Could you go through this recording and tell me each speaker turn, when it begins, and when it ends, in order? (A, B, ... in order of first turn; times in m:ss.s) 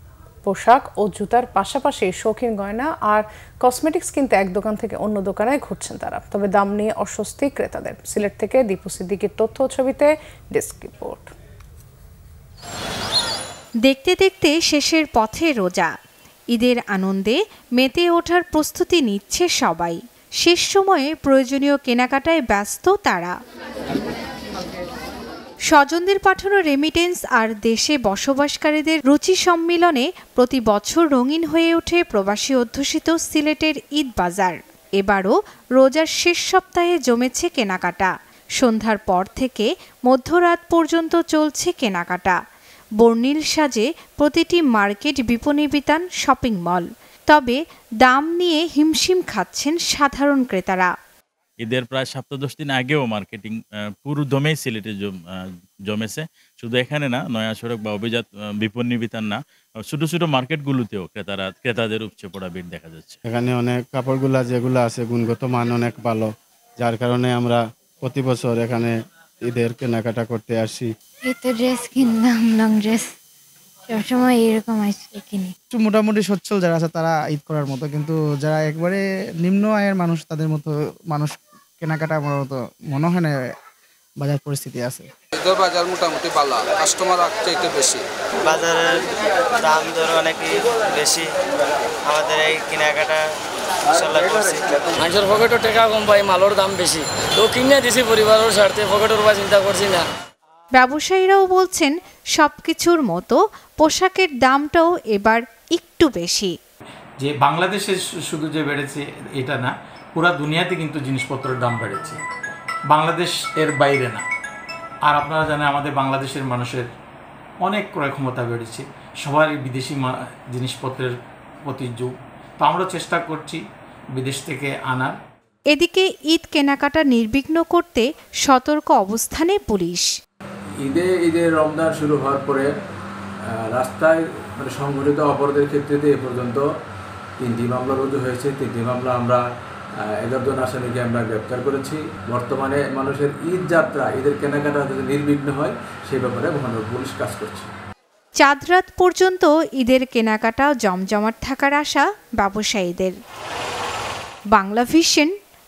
0:00.4-0:11.3 A
0:13.8-0:15.9 B
0:16.5-0:23.4 B
0:25.7-0:42.4 B
0:43.0-0:50.9 B
0:51.6-0:55.1 C
0:55.9-1:03.2 C
1:03.3-1:06.3 D
1:06.8-1:08.9 D
1:09.5-1:10.9 D
1:11.3-1:13.1 E
1:13.9-1:15.5 E
1:15.7-1:23.3 F
1:24.2-1:25.1 F
1:25.4-1:28.0 G
1:28.4-1:31.3 H
1:32.0-1:33.3 H
1:33.9-1:35.0 H
1:35.0-1:40.0 I
1:40.8-1:46.5 B
1:47.2-1:52.2 J
1:52.9-1:54.2 J
1:55.1-1:56.9 J
1:57.6-2:01.1 J
2:01.6-2:03.6 J
2:04.2-2:05.1 J
2:05.7-2:10.1 B
2:10.8-2:12.7 K
2:13.5-2:16.6 K
2:17.4-2:19.4 K
2:20.0-2:27.7 K
2:28.4-2:33.2 B
2:34.5-2:35.3 B